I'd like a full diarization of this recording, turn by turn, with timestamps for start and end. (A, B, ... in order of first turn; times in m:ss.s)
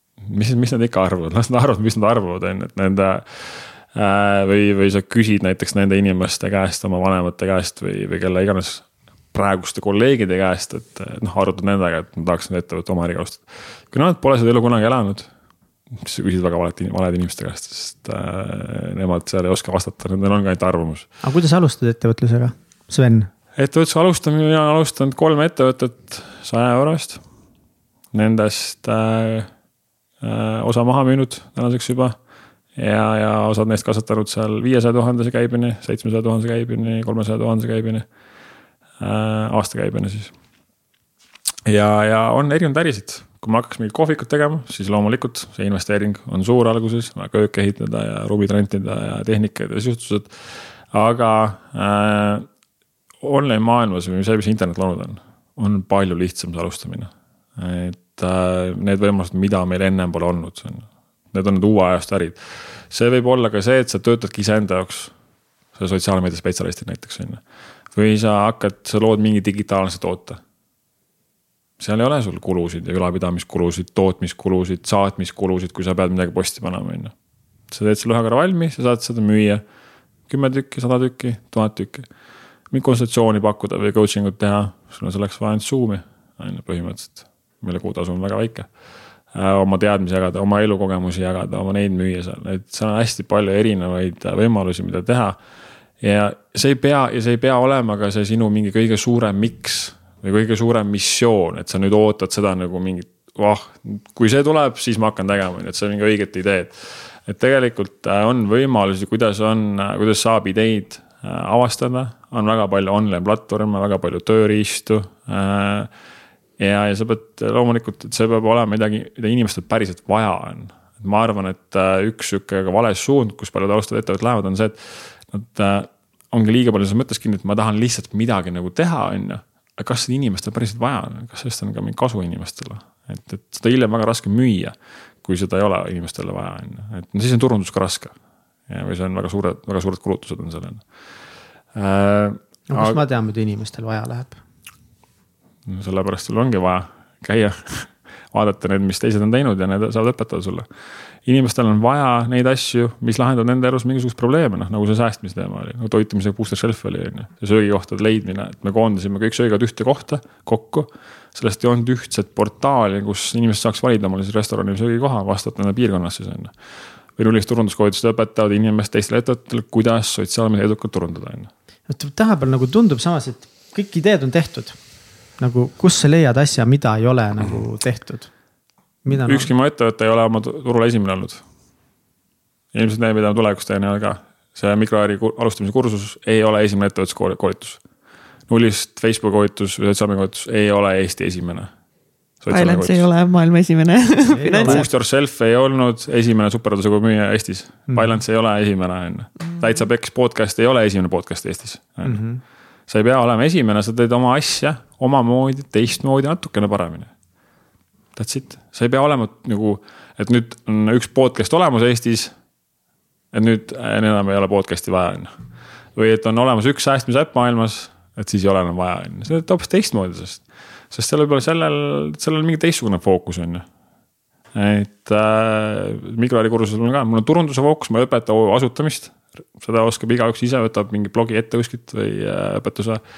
0:00.2-0:15.3 A
0:15.9-0:21.0 A
0:21.2-0:23.3 B
0:23.6-0:27.2 A
0:28.1-0:29.5 A
0:30.2-0:32.2 A
0:32.8-0:38.0 A
0:39.0-0:40.3 A
0:41.6-0:50.3 A
0:50.9-0:52.5 A
0:53.2-1:02.4 A
1:02.9-1:05.1 A
1:05.8-1:07.4 A
1:07.9-1:10.4 A
1:11.8-1:17.1 A
1:17.7-1:19.6 A
1:20.3-1:22.0 A
1:22.7-1:28.7 A
1:29.3-1:35.4 A
1:36.0-1:55.9 A
1:56.6-2:18.1 A
2:18.7-2:20.8 A
2:21.7-2:23.0 A
2:22.7-2:24.4 B
2:25.6-2:30.7 A
2:31.2-2:46.5 A
2:47.2-2:51.5 A
2:51.9-2:54.8 B
2:55.4-2:58.3 B
2:59.0-2:59.5 B
2:59.1-3:01.4 A
3:02.7-3:07.8 A
3:08.5-3:11.7 A
3:12.4-3:13.0 A
3:12.5-3:14.8 C
3:14.3-3:14.8 B
3:14.5-3:22.2 A
3:17.9-3:18.2 B
3:22.0-3:22.4 B
3:22.9-3:27.1 A
3:28.2-3:32.3 A
3:33.3-3:35.3 A
3:36.0-3:43.6 A
3:44.5-3:53.0 A